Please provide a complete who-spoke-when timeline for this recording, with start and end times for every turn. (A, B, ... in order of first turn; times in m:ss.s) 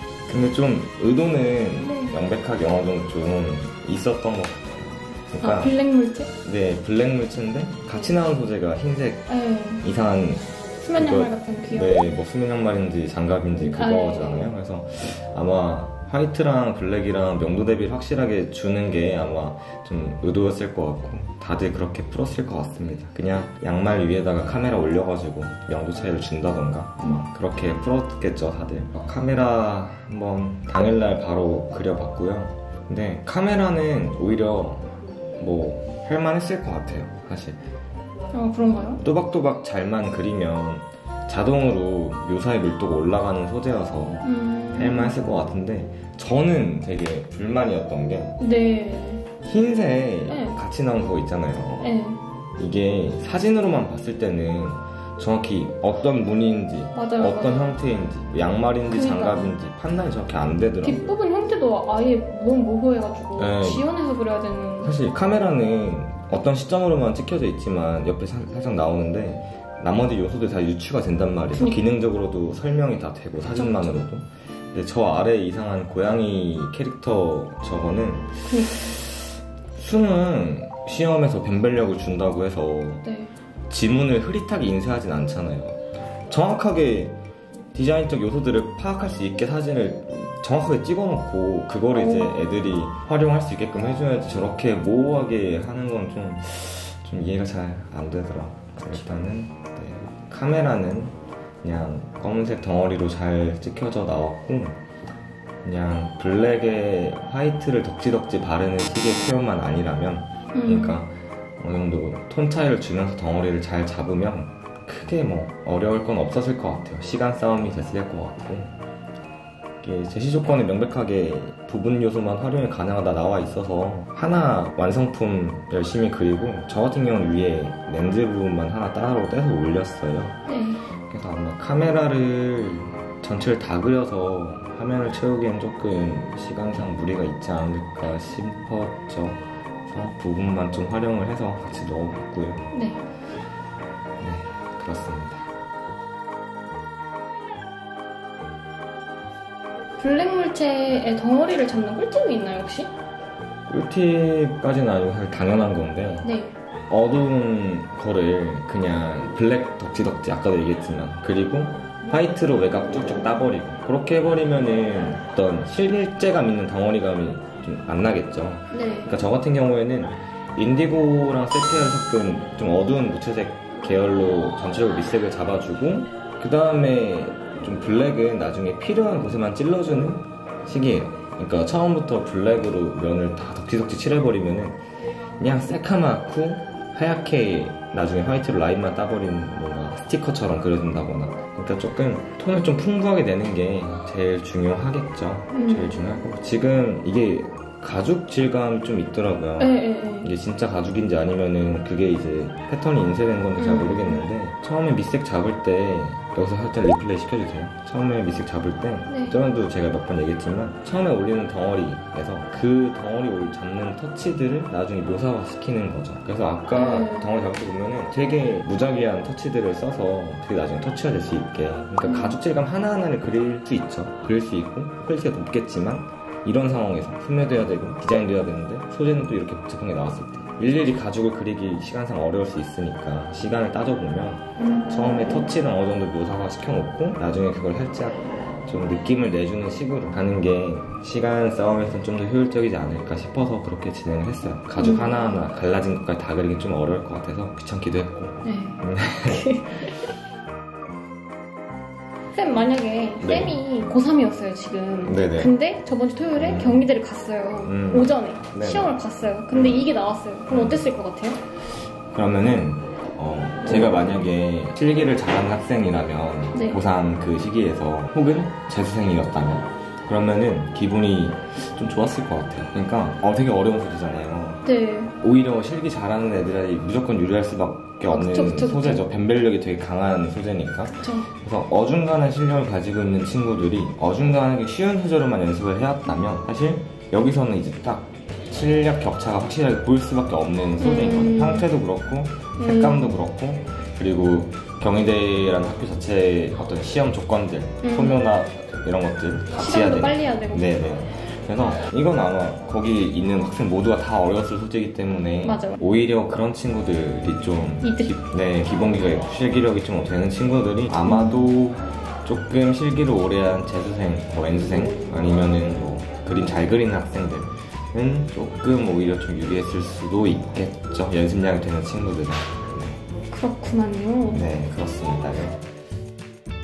0:00.3-0:05.8 A
0:01.8-0:02.2 B
0:05.4-0:06.3 B
0:06.4-0:09.3 A
0:09.3-0:09.8 B
0:09.8-0:37.6 A
0:10.8-0:12.0 B
0:13.6-0:14.5 B
0:38.3-0:39.0 B
0:39.0-0:48.4 A
0:44.2-0:45.1 B
0:48.4-0:49.2 B
0:49.4-0:51.9 A
0:50.3-0:50.6 B
0:51.8-0:52.2 B
0:52.6-1:01.1 A
0:57.0-0:57.8 B
0:58.9-0:59.5 B
1:00.8-1:04.9 B
1:03.4-1:03.9 A
1:04.8-1:23.1 A
1:11.5-1:11.8 B
1:13.5-1:13.9 B
1:18.5-1:18.9 B
1:23.0-1:23.3 B
1:23.7-1:27.2 A
1:27.7-1:44.8 A
1:31.9-1:32.6 B
1:45.6-1:58.7 A
1:50.5-1:51.0 B
1:59.8-2:10.4 A
2:10.5-2:10.8 B
2:11.0-2:22.7 A
2:22.7-2:23.0 B
2:24.2-2:25.5 A
2:30.0-2:32.9 B
2:33.7-2:36.3 A
2:36.2-2:36.5 B
2:36.9-3:04.8 A
2:48.7-2:49.1 B
3:05.4-4:09.9 A
3:15.5-3:15.9 B
3:19.6-3:20.3 B
3:23.6-3:24.2 B
3:29.1-3:29.4 B
3:36.7-3:37.3 B
3:42.0-3:42.4 B
3:54.9-3:55.4 B
4:04.8-4:05.4 B
4:08.4-4:09.9 B
4:12.3-4:21.4 B
4:13.2-4:13.6 A
4:15.0-4:15.6 A
4:16.4-4:16.9 A
4:17.6-4:19.0 A
4:19.5-4:19.9 A
4:20.5-4:20.9 A
4:22.1-4:34.7 A
4:26.5-4:26.8 B
4:34.6-4:35.1 B
4:35.2-5:23.0 A
4:38.1-4:39.0 B
4:40.9-4:41.3 B
4:50.8-4:51.7 B
4:52.6-4:53.2 B
4:57.8-4:58.2 B
4:59.6-5:00.7 B
5:05.4-5:05.8 B
5:07.8-5:08.1 B
5:11.0-5:11.5 B
5:23.3-5:24.4 B
5:24.3-5:25.6 A